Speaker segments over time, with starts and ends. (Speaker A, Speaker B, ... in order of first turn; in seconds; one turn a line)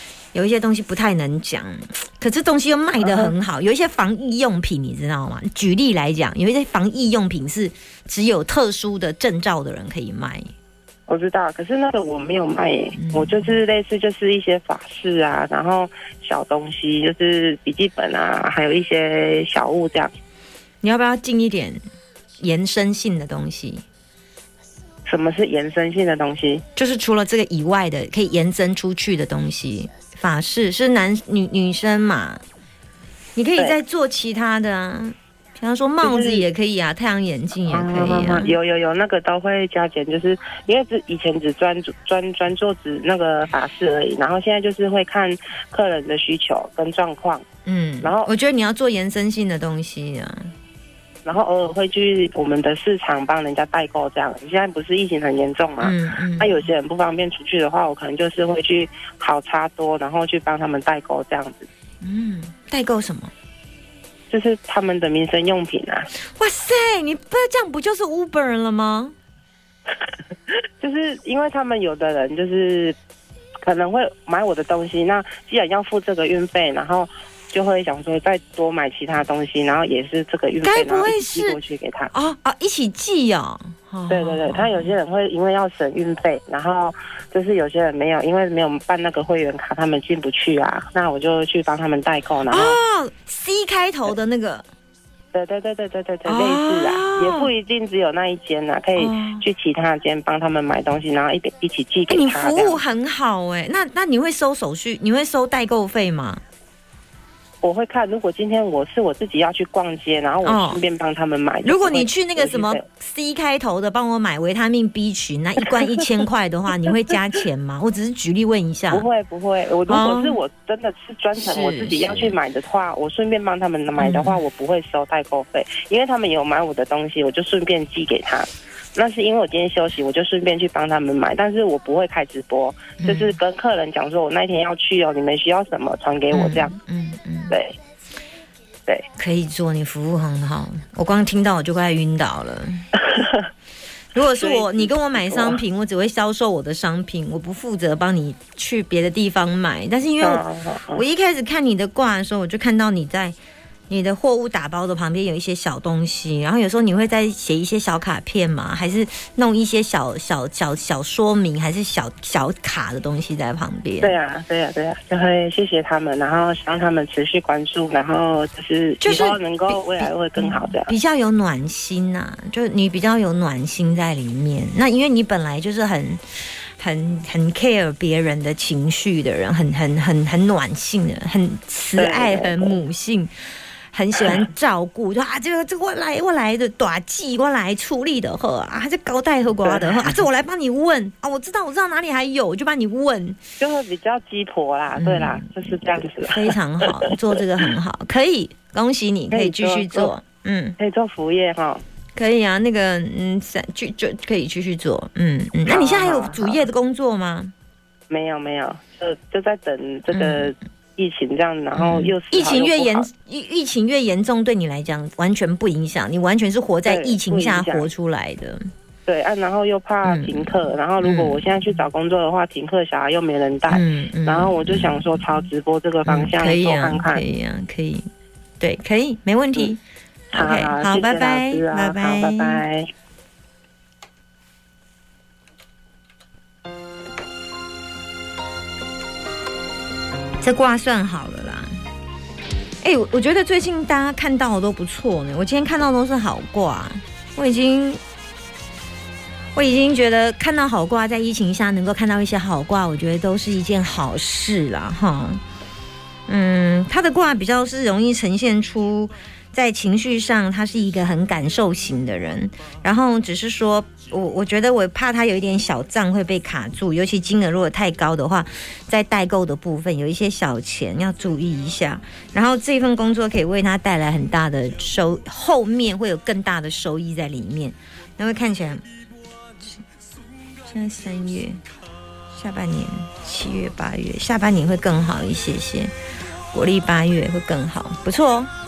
Speaker A: 0.3-10.5
Speaker B: 3.0-3.3
Speaker B: 11.1-20.1
Speaker A: 12.9-13.5
Speaker A: 20.8-21.8
Speaker A: 22.4-23.8
Speaker B: 25.1-26.6
Speaker A: 26.8-32.4
Speaker A: 33.3-38.5
Speaker B: 36.0-36.5
Speaker B: 37.7-47.4
Speaker A: 47.6-50.5
Speaker B: 48.0-48.3
Speaker B: 51.2-61.7
Speaker A: 55.8-56.6
Speaker A: 62.0-63.3
Speaker B: 64.3-66.1
Speaker A: 66.4-69.1
Speaker B: 70.5-73.0
Speaker B: 73.6-82.1
Speaker A: 80.6-81.6
Speaker A: 82.1-84.9
Speaker B: 84.1-92.8
Speaker A: 92.5-94.7
Speaker B: 95.3-102.8
Speaker A: 96.2-97.5
Speaker A: 99.0-99.4
Speaker A: 102.1-106.4
Speaker B: 107.6-112.8
Speaker A: 110.4-110.8
Speaker A: 111.6-119.1
Speaker B: 118.9-136.7
Speaker A: 119.9-120.4
Speaker A: 121.4-122.3
Speaker A: 124.0-124.4
Speaker A: 133.0-133.3
Speaker A: 136.3-137.6
Speaker B: 137.5-137.8
Speaker A: 139.2-142.8
Speaker B: 143.1-143.4
Speaker A: 144.1-150.4
Speaker B: 144.4-145.6
Speaker B: 150.2-151.0
Speaker A: 150.9-153.4
Speaker A: 153.9-164.2
Speaker B: 164.0-170.9
Speaker A: 169.0-176.2
Speaker A: 176.8-193.4
Speaker B: 181.9-182.7
Speaker B: 189.6-190.2
Speaker B: 193.6-196.4
Speaker A: 194.9-200.8
Speaker B: 199.3-200.1
Speaker B: 200.8-201.8
Speaker A: 202.2-207.5
Speaker B: 205.7-206.7
Speaker B: 208.1-213.1
Speaker A: 210.1-210.5
Speaker A: 211.7-218.7
Speaker B: 216.8-217.9
Speaker B: 219.1-227.2
Speaker A: 220.0-221.5
Speaker A: 223.7-225.3
Speaker A: 226.0-228.1
Speaker A: 228.6-229.8
Speaker A: 230.3-232.6
Speaker B: 230.3-232.9
Speaker A: 240.4-241.7
Speaker A: 242.8-248.0
Speaker A: 249.5-255.4
Speaker A: 256.3-278.8
Speaker A: 280.6-281.6
Speaker A: 282.3-285.9
Speaker A: 286.5-288.5